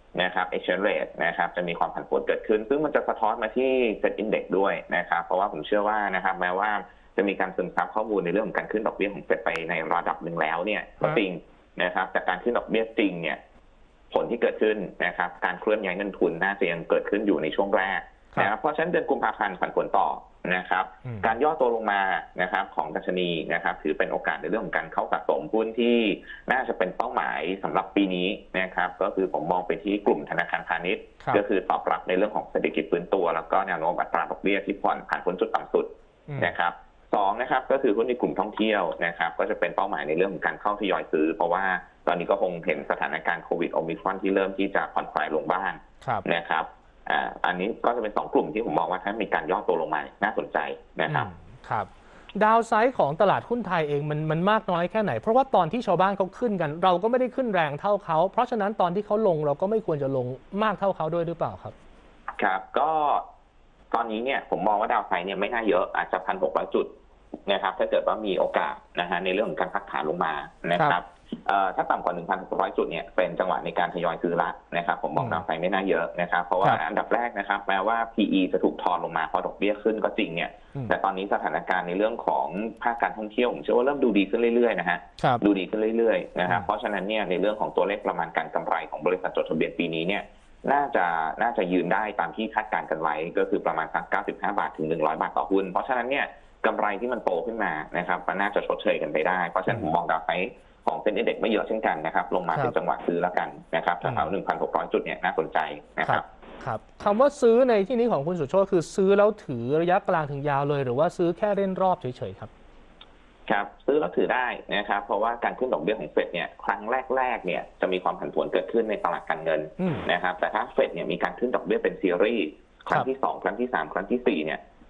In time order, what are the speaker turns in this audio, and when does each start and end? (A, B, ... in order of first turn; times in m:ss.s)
0:00.2-0:13.4 A
0:14.1-0:51.3 A
0:21.0-0:21.3 B
0:36.3-0:36.5 B
0:51.1-1:01.8 B
1:02.4-1:03.2 A
1:03.9-1:06.9 A
1:07.5-1:46.2 A
1:15.2-1:15.4 B
1:25.2-1:25.4 B
1:44.0-1:44.3 B
1:46.0-1:52.5 B
1:53.5-2:04.6 A
1:59.8-2:00.1 B